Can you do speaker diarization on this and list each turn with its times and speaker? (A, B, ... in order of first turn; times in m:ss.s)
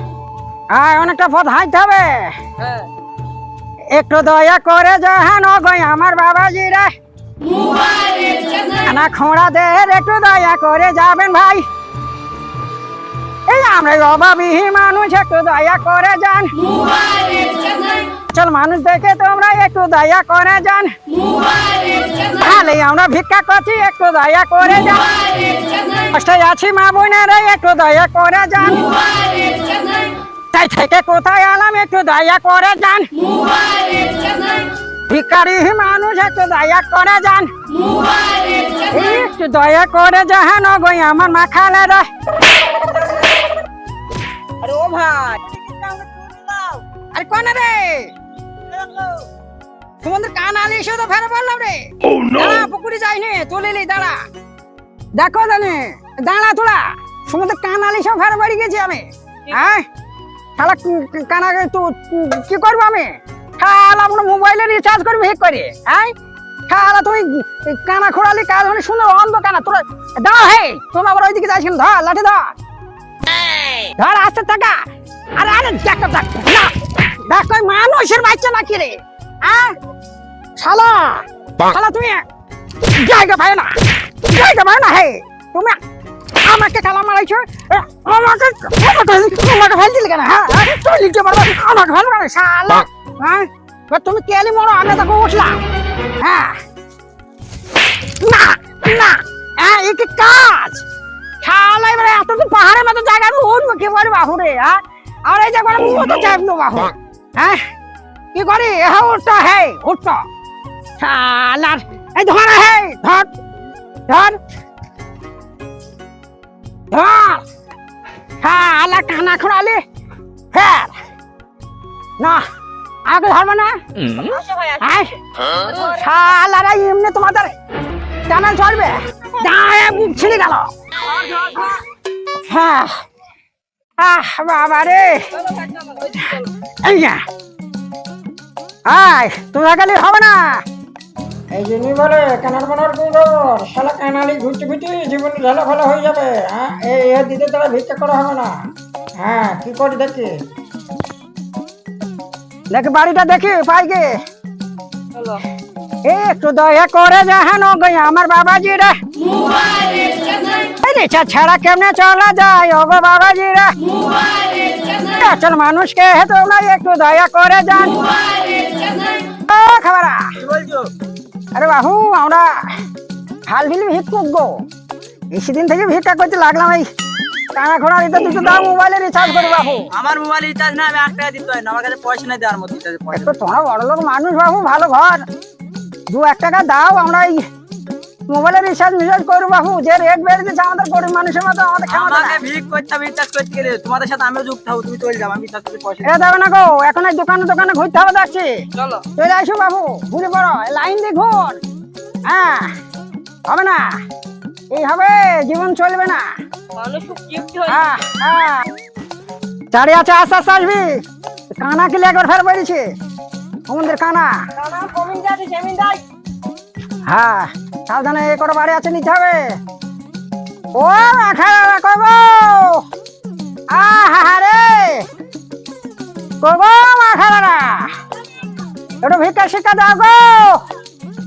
0:00.7-0:02.4 A
0:02.6-0:02.9 B
0:03.9-0:06.9 A
0:08.9-0:11.6 A
0:13.5-0:16.6 A
0:18.3-0:20.9 A
0:22.3-0:25.3 A
0:26.1-0:28.8 A
0:30.5-0:33.1 A
0:35.1-0:37.5 A
0:38.9-0:42.1 A
0:44.6-0:46.8 B
0:47.1-0:48.1 A
0:48.7-0:49.1 B
0:50.0-0:54.2 A
0:55.2-0:59.9 A
1:00.6-1:06.1 A
1:06.7-1:12.5 A
1:14.0-1:14.8 A
1:15.4-1:16.7 A
1:17.2-1:19.8 A
1:20.6-1:22.2 A
1:23.0-1:23.8 A
1:24.3-1:25.8 A
1:26.5-1:35.6 A
1:36.2-1:36.6 A
1:38.2-1:40.8 A
1:41.4-1:47.6 A
1:48.3-1:50.2 A
1:51.0-1:53.3 A
1:54.1-1:54.4 A
1:56.9-1:57.4 A
1:58.4-1:59.8 A
2:00.5-2:00.9 A
2:03.1-2:03.8 A
2:04.1-2:06.0 B
2:04.8-2:05.1 A
2:05.7-2:07.5 A
2:08.3-2:10.7 A
2:11.1-2:11.7 B
2:12.5-2:13.0 A
2:14.0-2:15.3 A
2:15.3-2:16.5 B
2:16.8-2:17.2 A
2:18.9-2:20.6 A
2:21.5-2:30.4 A
2:32.7-2:34.2 A
2:35.1-2:35.4 B
2:36.0-2:39.0 A
2:40.8-2:43.8 A
2:45.2-2:48.0 A
2:49.5-2:50.3 A
2:50.4-2:50.9 C
2:51.5-2:52.8 A
2:53.5-2:54.6 A
2:55.3-2:56.9 A
2:57.5-2:59.9 A
2:59.9-3:03.3 C
3:03.1-3:05.2 A
3:06.1-3:07.5 A
3:08.3-3:12.4 A
3:11.9-3:16.1 C
3:16.0-3:18.5 A
3:18.8-3:19.0 B
3:19.2-3:21.6 A
3:22.2-3:22.7 A
3:23.5-3:24.0 A
3:24.7-3:26.2 A
3:26.8-3:27.9 B
3:27.7-3:28.7 A
3:29.7-3:31.0 A
3:31.6-3:32.8 A
3:33.7-3:34.4 A
3:34.5-3:36.0 B
3:37.1-3:39.6 A
3:40.8-3:42.8 A
3:43.7-3:45.0 A
3:46.4-3:47.9 A
3:49.0-3:50.6 A